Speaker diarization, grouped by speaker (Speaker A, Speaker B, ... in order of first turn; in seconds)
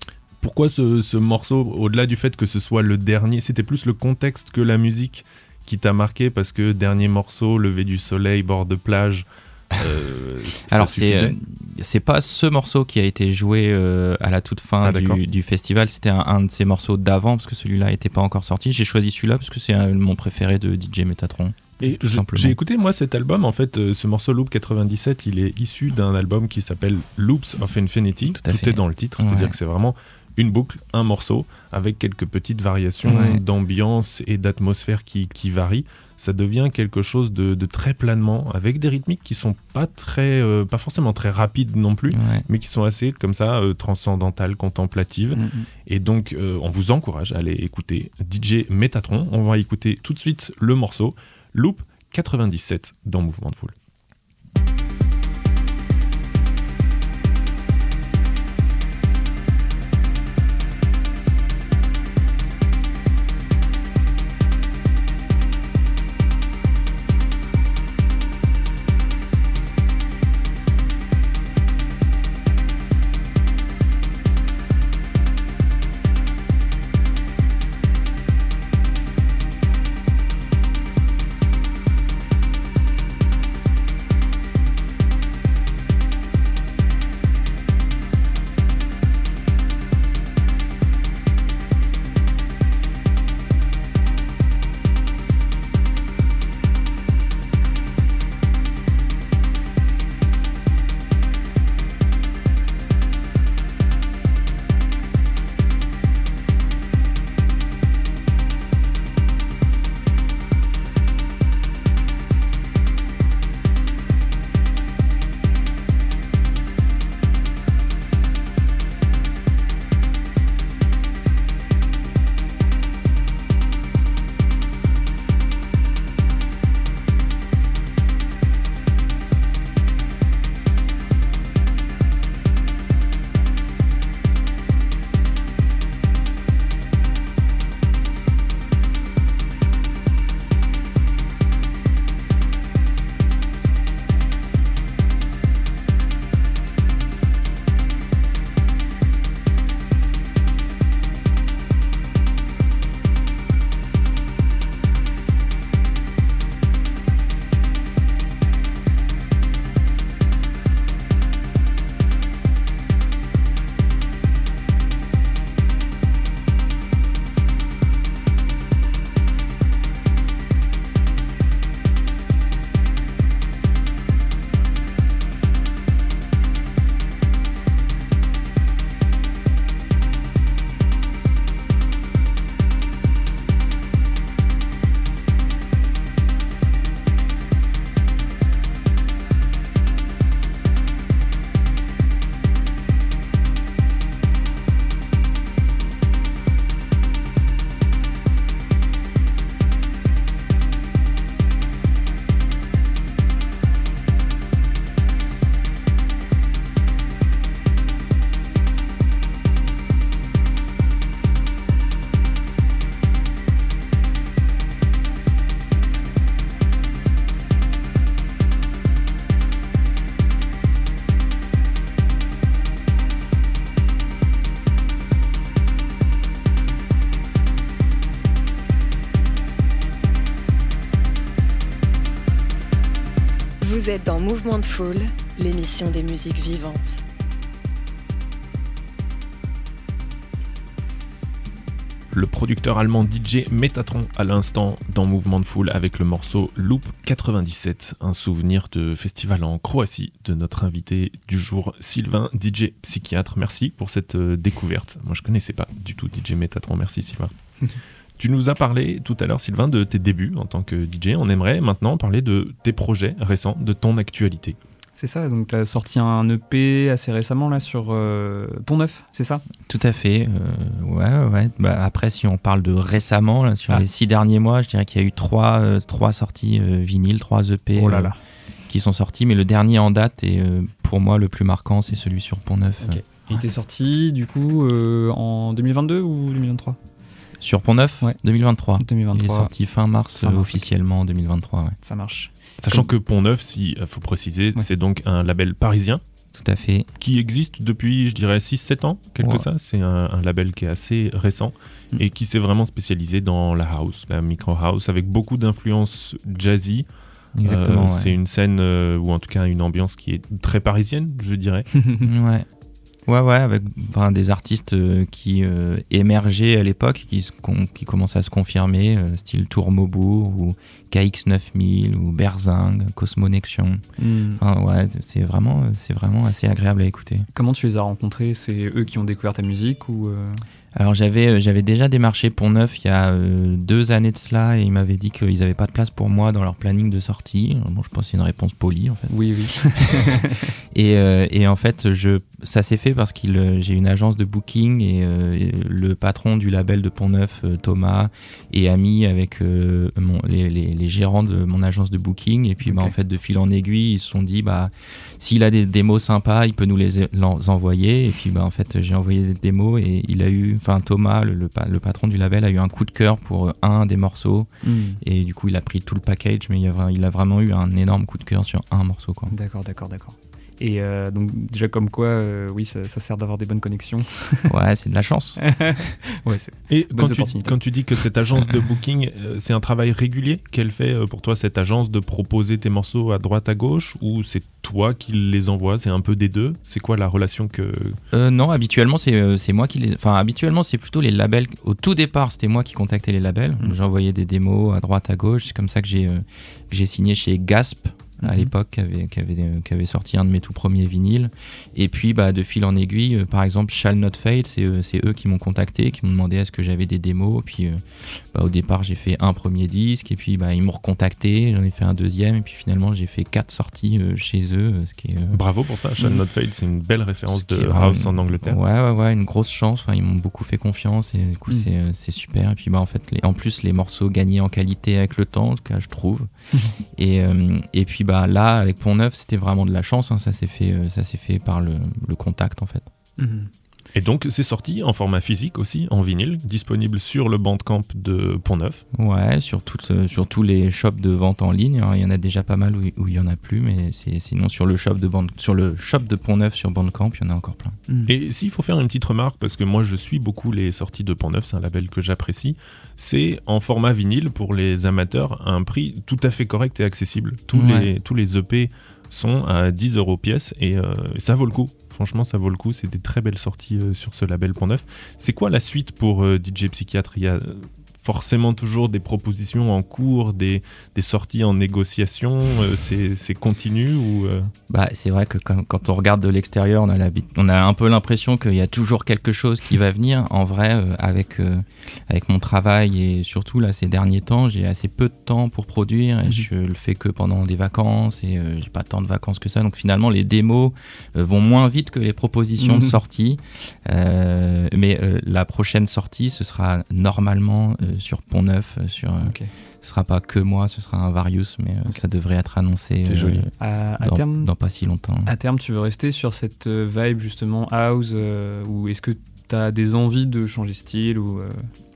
Speaker A: 0.4-11.3, 14.8-15.2, 21.8-53.7, 242.1-257.3, 258.2-264.6, 292.6-296.0, 297.0-306.9, 307.4-311.7, 376.7-388.0, 415.3-418.6, 433.9-438.8, 448.1-474.5, 503.1-503.4
Speaker B: 10.7-22.6, 28.3-29.6, 33.0-33.4, 42.1-42.5, 269.6-278.1, 278.7-283.4, 287.4-291.8, 296.3-296.9, 307.4-308.2, 312.0-312.4, 313.1-323.8, 324.4-327.3, 330.8-339.1, 339.6-340.2, 340.7-369.3, 374.5-375.4, 388.1-407.8, 408.3-415.4, 417.3-426.3, 426.9-432.9, 438.9-447.8, 457.5-457.9, 474.7-505.3
Speaker C: 45.3-45.7, 264.9-269.4, 277.7-278.2, 282.8-286.8, 288.8-289.5, 290.2-290.6, 291.8-292.9, 324.0-324.4, 327.3-330.4, 339.1-340.5, 352.6-352.9, 364.6-365.0, 369.3-374.5, 375.4-377.6, 398.2-398.5, 433.2-433.5, 492.6-493.0, 499.2-499.5, 503.6-504.5, 505.2-511.7
Speaker D: 233.6-237.0